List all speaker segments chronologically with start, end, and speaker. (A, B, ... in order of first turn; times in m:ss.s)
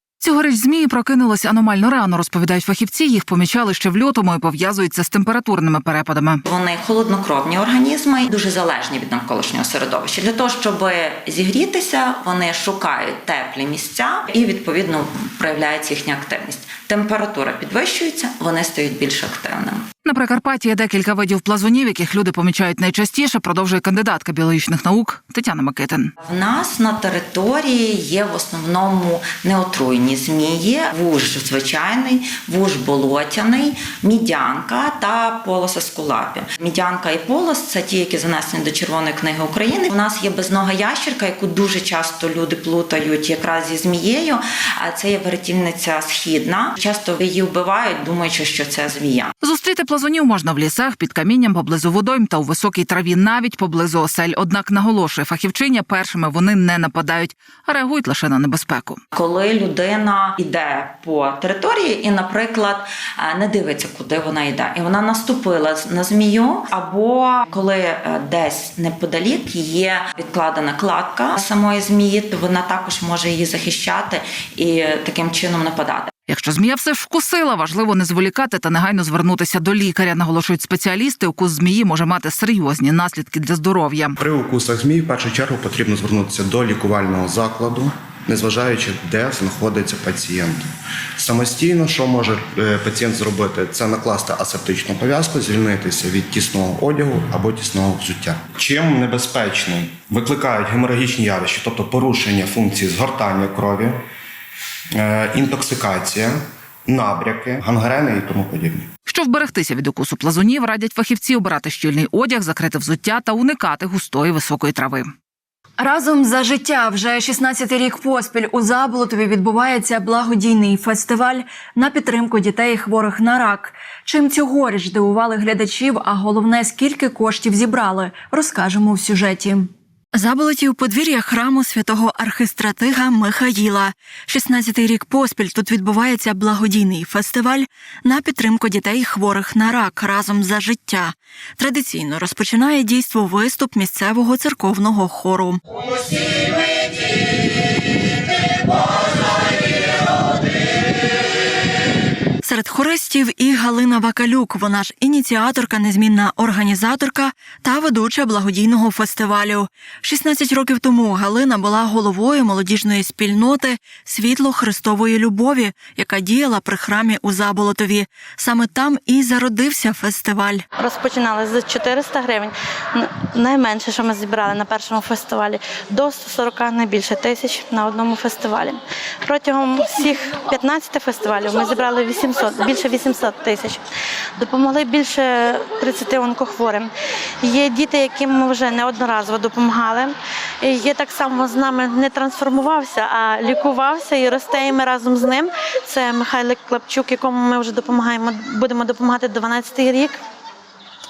0:00.2-0:06.4 A
0:06.4-0:19.9 B
0:20.0-0:26.1 A
0:26.2-0:49.3 B
0:49.4-0:59.0 A
0:59.1-1:16.1 B
1:16.3-1:24.1 A
1:24.2-1:30.6 C
1:31.2-1:44.0 C
1:45.0-1:46.4 C
1:46.9-1:48.9 C
1:49.1-1:55.1 A
1:55.8-2:25.6 D
2:32.4-2:50.6 D
2:50.8-3:03.8 E
3:04.4-3:06.9 E
3:07.4-3:20.2 E